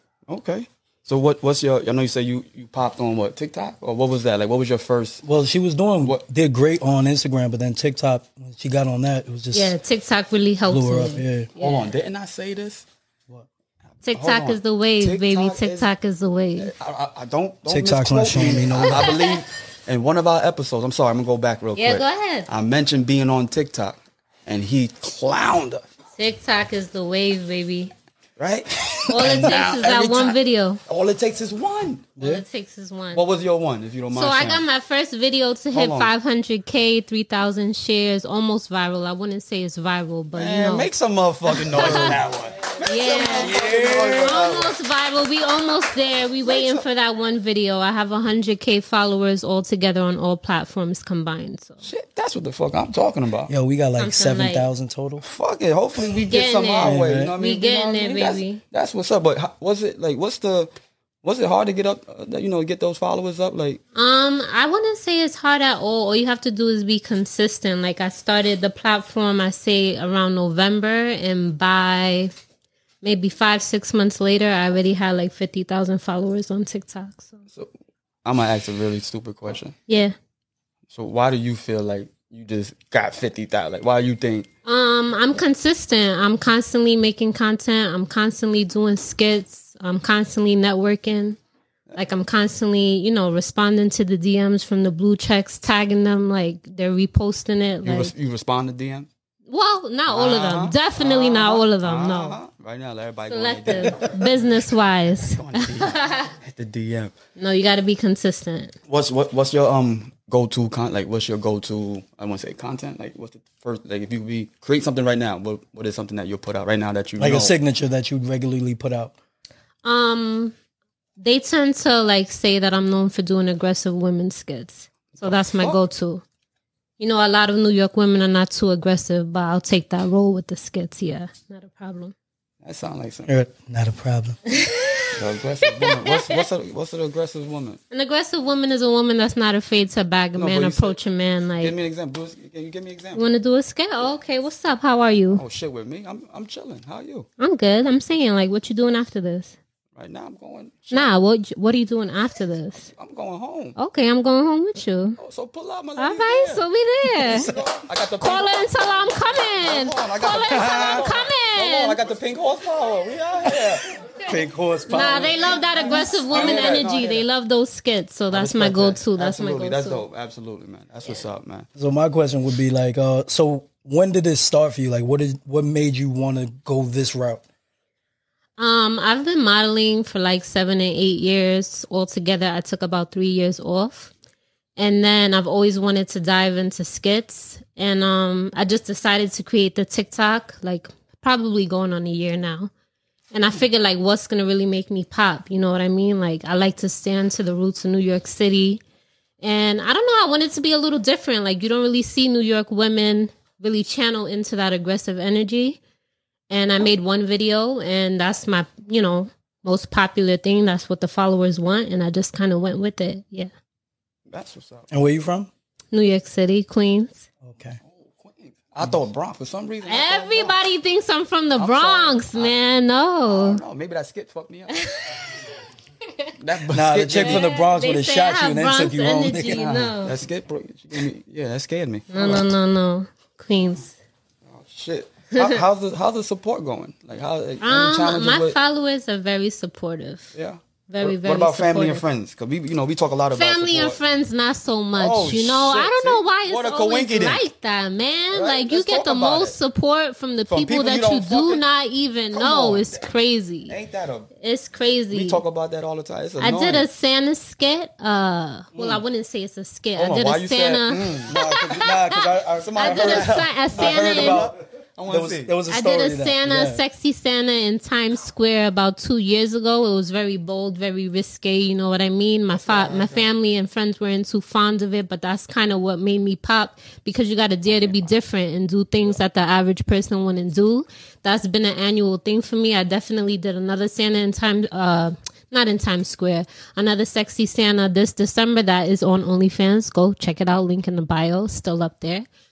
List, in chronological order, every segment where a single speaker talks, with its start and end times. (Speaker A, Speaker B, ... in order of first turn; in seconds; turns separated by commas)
Speaker A: 0.3-5.2, Speaker B: 5.2-9.8, Speaker C: 9.5-11.9, Speaker B: 10.7-11.5, Speaker A: 11.6-12.8, Speaker C: 14.0-16.7, Speaker A: 14.1-15.9, Speaker A: 16.6-25.8, Speaker B: 17.6-19.1, Speaker C: 18.9-19.4, Speaker C: 21.8-22.5, Speaker C: 26.1-27.9, Speaker A: 28.4-32.1, Speaker B: 28.9-29.5, Speaker C: 29.1-30.8, Speaker B: 32.1-32.4, Speaker C: 32.2-33.2, Speaker A: 33.1-34.6, Speaker C: 34.1-40.9, Speaker A: 35.7-36.1, Speaker A: 40.3-44.7, Speaker C: 41.5-42.2, Speaker C: 42.8-43.6, Speaker B: 43.4-44.4, Speaker C: 44.2-51.8, Speaker A: 46.4-46.8, Speaker A: 51.8-53.5, Speaker B: 53.5-55.2, Speaker C: 54.0-54.6, Speaker A: 55.2-60.7, Speaker C: 56.2-58.6, Speaker B: 56.8-57.3, Speaker A: 61.2-63.8, Speaker C: 63.9-72.3, Speaker C: 73.0-77.4, Speaker A: 78.2-79.8, Speaker C: 79.9-80.1, Speaker A: 80.9-84.5, Speaker C: 84.7-91.4, Speaker C: 91.9-98.1, Speaker A: 97.8-99.1, Speaker C: 99.5-102.4, Speaker A: 100.1-104.1, Speaker C: 103.3-106.3, Speaker B: 103.8-104.1, Speaker A: 105.2-107.1, Speaker C: 107.4-108.8, Speaker A: 108.9-117.5, Speaker B: 117.2-119.1, Speaker C: 119.8-120.5, Speaker C: 121.2-126.2, Speaker A: 125.1-125.8, Speaker C: 127.0-132.1, Speaker A: 132.6-133.3, Speaker B: 133.3-134.4, Speaker C: 134.5-136.4, Speaker A: 135.1-137.8, Speaker C: 137.9-141.7, Speaker A: 140.4-140.9, Speaker A: 141.6-143.2, Speaker C: 143.1-145.4, Speaker A: 145.3-147.3, Speaker C: 147.4-149.6, Speaker A: 149.9-151.1, Speaker C: 150.9-152.9, Speaker A: 152.9-153.8, Speaker C: 153.8-155.2, Speaker A: 155.2-156.6, Speaker C: 156.0-157.5, Speaker B: 157.2-157.7, Speaker A: 157.2-158.6, Speaker C: 158.2-162.0, Speaker A: 159.5-163.9, Speaker B: 160.5-161.1, Speaker B: 163.4-165.5, Speaker C: 164.9-170.0, Speaker A: 165.9-167.3, Speaker A: 168.3-171.7, Speaker B: 171.8-177.4, Speaker C: 178.6-184.1, Speaker C: 184.8-192.7, Speaker C: 193.3-198.8, Speaker C: 199.4-205.8, Speaker C: 206.5-213.5, Speaker A: 214.3-214.9, Speaker B: 214.9-215.5, Speaker C: 215.9-217.3, Speaker B: 217.4-217.8, Speaker A: 217.8-220.5, Speaker C: 219.8-223.6, Speaker A: 221.6-222.6, Speaker A: 223.2-224.8, Speaker C: 224.7-225.5, Speaker A: 226.4-227.5, Speaker B: 226.7-229.9, Speaker C: 227.2-230.2, Speaker A: 230.0-232.4, Speaker C: 232.1-233.9, Speaker A: 234.5-238.6, Speaker C: 235.3-235.6, Speaker C: 237.6-240.3, Speaker A: 240.3-244.0, Speaker C: 240.9-242.0, Speaker C: 243.3-253.8, Speaker A: 244.9-247.4, Speaker A: 248.3-249.6, Speaker A: 250.5-251.6, Speaker A: 252.3-253.1, Speaker A: 253.7-254.3, Speaker C: 254.4-255.4, Speaker A: 255.1-256.9, Speaker C: 256.4-264.5, Speaker B: 258.7-259.0, Speaker A: 260.0-261.3, Speaker B: 261.3-264.5, Speaker A: 262.6-265.5, Speaker B: 265.1-266.8, Speaker C: 265.7-292.3, Speaker A: 272.6-273.3